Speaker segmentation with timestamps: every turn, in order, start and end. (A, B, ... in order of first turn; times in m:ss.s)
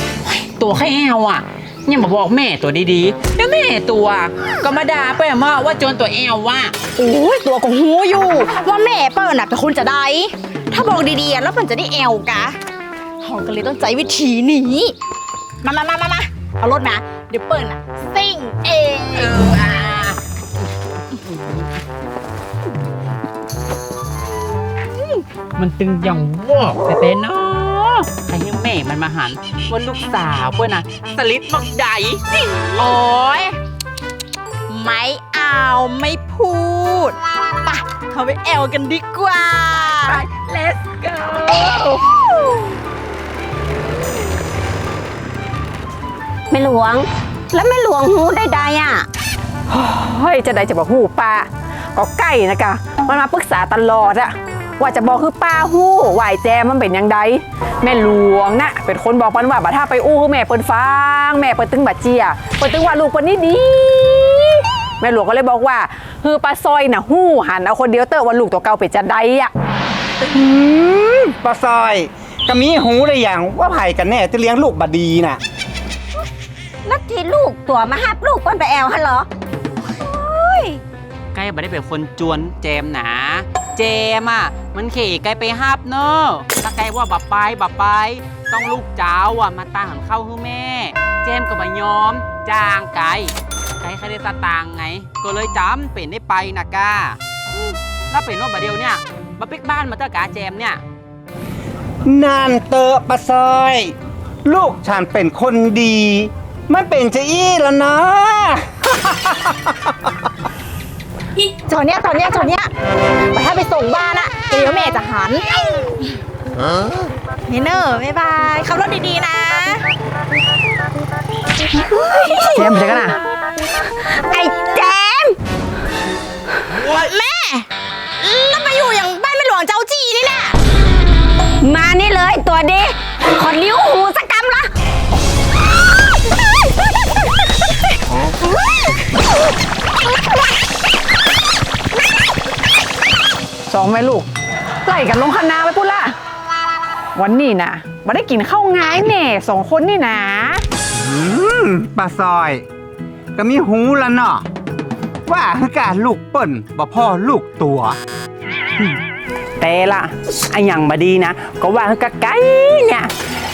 0:00.2-0:06.8 A
0:07.0-0:12.6 B
0:13.2-0:14.9 B
0:15.6-0:19.4 B
0:19.2-0:20.2 A
0:21.3-0:21.6 A
0:25.6-0:32.2 A
0:32.5-0:33.6 B
0:34.7-0:40.2 B
0:40.3-0:41.3 A
0:40.6-0:41.0 C
0:46.5-0:49.1 D
0:49.7-1:09.5 C
1:10.3-1:15.4 E
1:16.8-1:19.3 D
1:19.8-1:20.8 D
1:21.3-1:40.8 A
1:42.0-1:49.9 E
1:51.6-1:52.7 B
1:53.3-1:55.4 B
1:57.5-1:59.8 B
2:02.1-2:02.7 D
2:02.2-2:02.6 B
2:02.6-2:03.2 C
2:04.0-2:05.4 D
2:06.8-2:07.7 B
2:08.2-2:10.5 B
2:11.6-2:14.7 D
2:23.7-2:24.3 C
2:24.8-2:26.2 C
2:27.2-2:30.6 C
2:30.9-2:32.6 E
2:33.4-2:34.4 E
2:35.3-2:38.0 E
2:39.6-2:43.1 A